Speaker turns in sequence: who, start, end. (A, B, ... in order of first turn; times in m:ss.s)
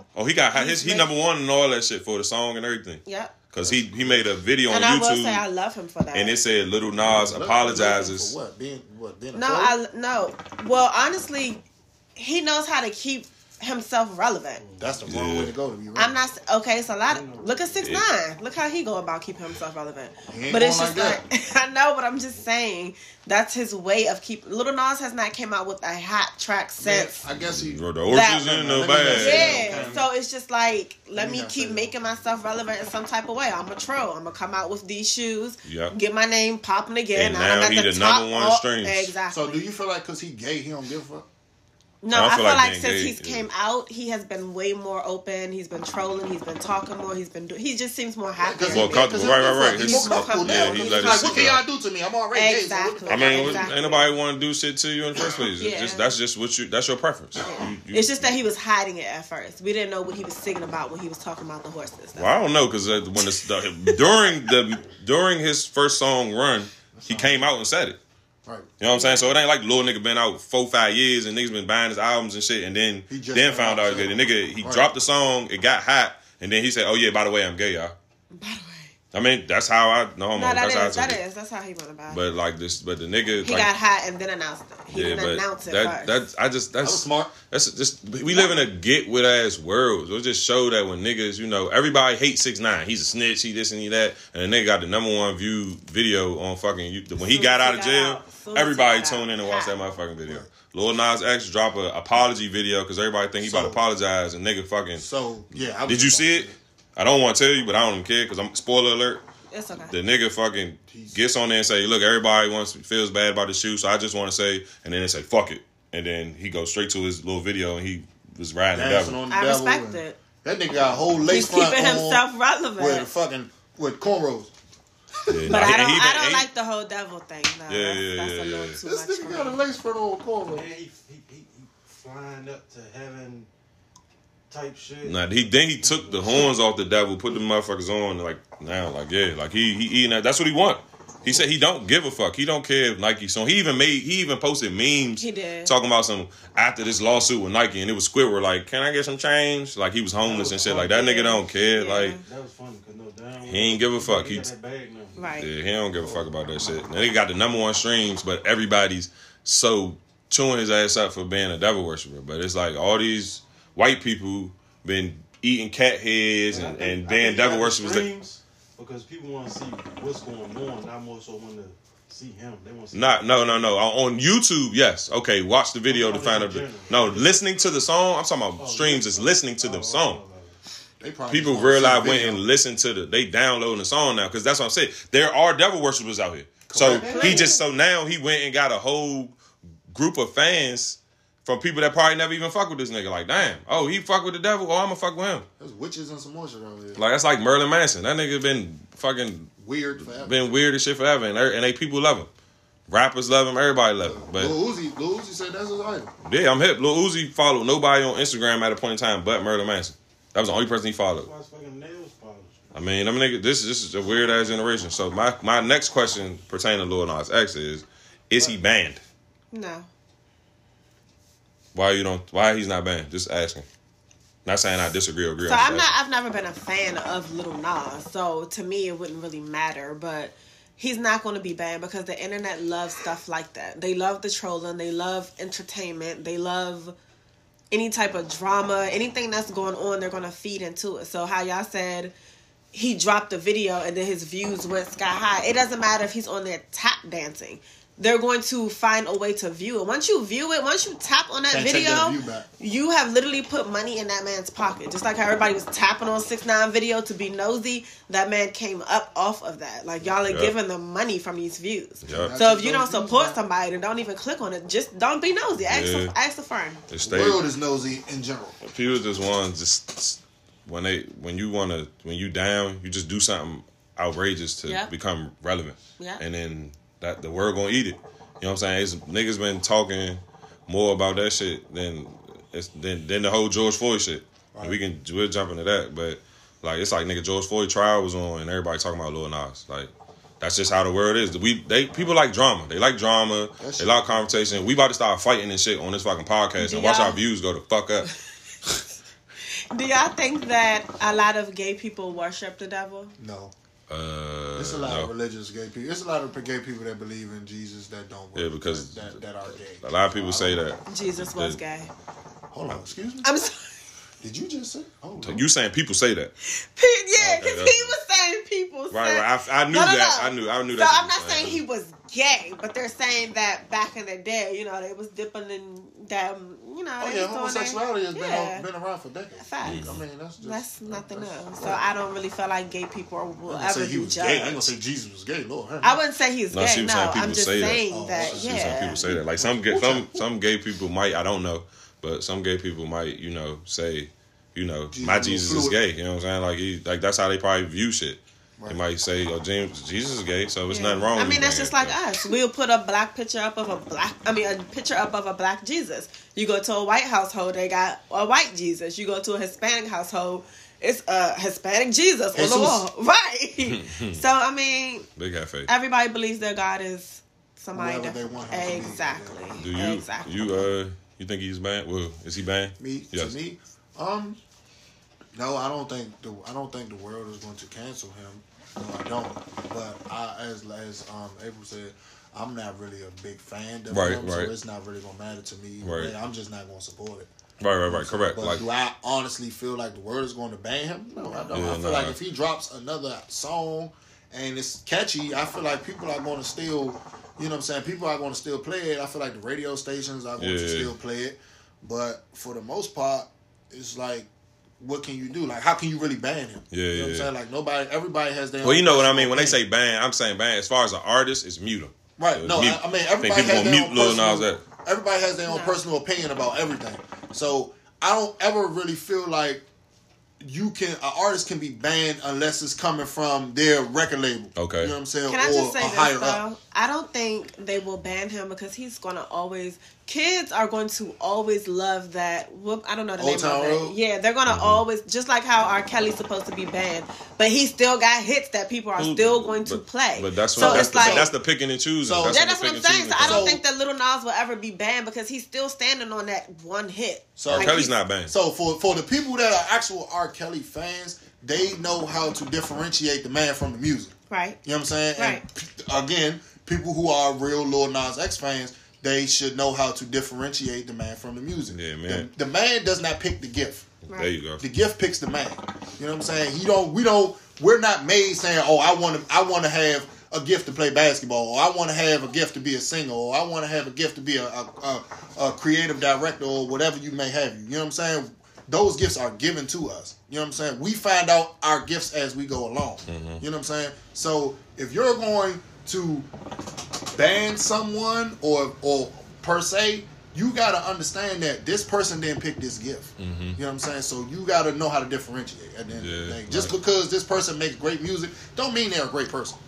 0:00.1-0:05.4 A
0:00.5-0:01.1 B
0:03.0-0:03.3 B
0:03.6-0:04.3 C
0:04.7-0:06.4 B
0:06.1-0:08.3 A
0:06.9-0:09.8 C
0:09.3-0:11.6 B
0:12.2-0:14.6 B
0:14.6-0:15.2 D
0:14.8-0:16.2 C
0:15.1-0:15.5 A
0:16.0-0:27.2 B
0:17.1-0:17.9 D
0:20.3-0:21.2 C
0:26.8-0:27.8 C
0:27.4-0:29.9 A
0:28.1-0:28.5 B
0:28.4-0:30.1 C
0:29.1-0:39.6 B
0:31.1-0:31.9 C
0:35.6-0:35.9 A
0:37.1-0:39.1 A
0:39.3-0:41.2 C
0:42.0-0:51.5 B
0:42.1-0:43.4 A
0:48.4-0:53.7 C
0:48.7-0:51.6 A
0:52.3-0:54.1 B
0:53.1-0:58.3 A
0:55.6-0:56.2 B
0:57.4-1:02.4 B
1:02.2-1:08.0 A
1:06.9-1:07.5 C
1:08.8-1:17.9 A
1:08.9-1:09.4 B
1:13.1-1:14.9 C
1:18.3-1:18.9 B
1:19.1-1:21.2 A
1:20.3-1:22.2 B
1:22.1-1:23.7 A
1:23.4-1:26.1 B
1:24.9-1:45.0 A
1:26.8-1:27.3 C
1:28.3-1:28.7 B
1:37.2-1:39.8 B
1:43.4-1:43.8 C
1:45.0-1:46.6 C
1:45.8-1:49.2 A
1:49.5-1:49.9 B
1:49.9-1:59.2 A
1:50.9-1:51.2 C
1:58.7-2:02.2 C
1:59.3-2:00.2 B
2:01.3-2:03.2 B
2:02.8-2:04.5 C
2:05.2-2:05.7 C
2:05.3-2:06.5 A
2:05.4-2:09.6 B
2:07.7-2:08.8 A
2:08.8-2:10.7 C
2:10.5-2:13.5 D
2:14.5-2:16.5 D
2:15.0-2:32.2 A
2:25.2-2:25.7 B
2:30.2-2:31.5 D
2:30.8-2:32.2 B
2:32.2-2:35.3 D
2:33.4-2:34.5 A
2:35.2-2:35.5 B
2:35.4-2:48.1 A
2:36.0-2:36.7 D
2:46.5-2:53.7 D
2:52.9-3:00.2 A
2:55.9-2:57.4 D
2:58.6-3:00.6 D
3:01.0-3:02.4 C
3:01.3-3:09.3 A
3:06.7-3:07.5 C
3:06.8-3:07.6 B
3:07.1-3:07.5 D
3:09.9-3:15.4 A
3:15.6-3:17.0 C
3:17.0-3:22.3 A
3:19.6-3:20.4 C
3:22.9-3:24.5 A
3:24.0-3:26.1 C
3:26.2-3:31.3 A
3:31.1-3:32.8 D
3:32.7-3:39.0 A
3:39.5-3:39.9 B
3:41.7-3:43.6 A
3:44.4-3:45.9 A
3:45.4-3:56.9 B
3:57.7-4:02.1 B
4:02.7-4:26.8 B
4:11.5-4:12.4 C
4:20.2-4:20.5 A
4:22.0-4:22.3 A
4:22.1-4:23.4 C
4:25.6-4:26.1 A
4:26.9-4:27.4 A
4:27.0-4:28.6 C
4:28.6-4:58.1 A
4:34.6-4:34.9 B
4:36.0-4:36.2 B
4:53.6-4:54.4 C
4:56.6-4:57.2 B
4:59.7-5:03.1 B
5:03.2-5:03.5 C
5:03.9-5:05.1 A
5:04.6-5:10.6 C
5:08.3-5:09.2 A
5:09.8-5:11.6 A
5:10.9-5:11.9 B
5:12.5-5:13.3 C
5:13.2-5:13.7 B
5:14.2-5:15.4 C
5:15.2-5:16.3 A
5:16.4-5:28.6 B
5:17.2-5:18.0 A
5:18.9-5:21.6 A
5:27.0-5:31.8 C
5:29.4-5:34.7 B
5:29.6-5:30.0 A
5:33.5-5:36.0 C
5:35.8-5:39.0 B
5:36.5-5:52.0 A
5:37.8-5:40.2 C
5:44.9-5:45.8 C
5:50.7-6:05.1 B
6:02.3-6:02.8 C
6:03.6-6:04.2 A
6:05.2-6:05.7 A
6:05.7-6:10.7 B
6:07.7-6:09.5 C
6:09.6-6:13.3 A
6:12.8-6:14.4 C
6:15.3-6:27.3 C
6:23.9-6:24.5 A
6:25.8-6:26.1 A
6:27.6-6:28.6 A
6:27.9-6:44.3 C
6:31.5-6:32.2 A
6:40.4-6:40.9 A
6:44.8-6:49.6 C
6:46.7-6:47.3 A
6:48.6-6:54.6 A
6:52.2-6:59.6 C
6:55.5-6:55.8 B
7:00.4-7:06.4 C
7:04.6-7:04.9 A
7:05.3-7:21.3 B
7:13.2-7:14.0 C
7:14.4-7:14.8 A
7:19.0-7:23.6 A
7:20.5-7:21.3 C
7:22.0-7:22.4 C
7:22.3-7:27.9 B
7:23.2-7:23.6 C
7:27.4-7:43.9 C
7:27.5-7:28.3 A
7:34.3-7:34.6 B
7:35.2-7:35.4 B
7:41.7-7:42.3 A
7:44.1-7:44.6 A
7:44.6-8:06.3 C
8:03.1-8:03.4 A
8:07.1-8:19.6 C
8:13.2-8:13.6 A
8:16.0-8:16.8 A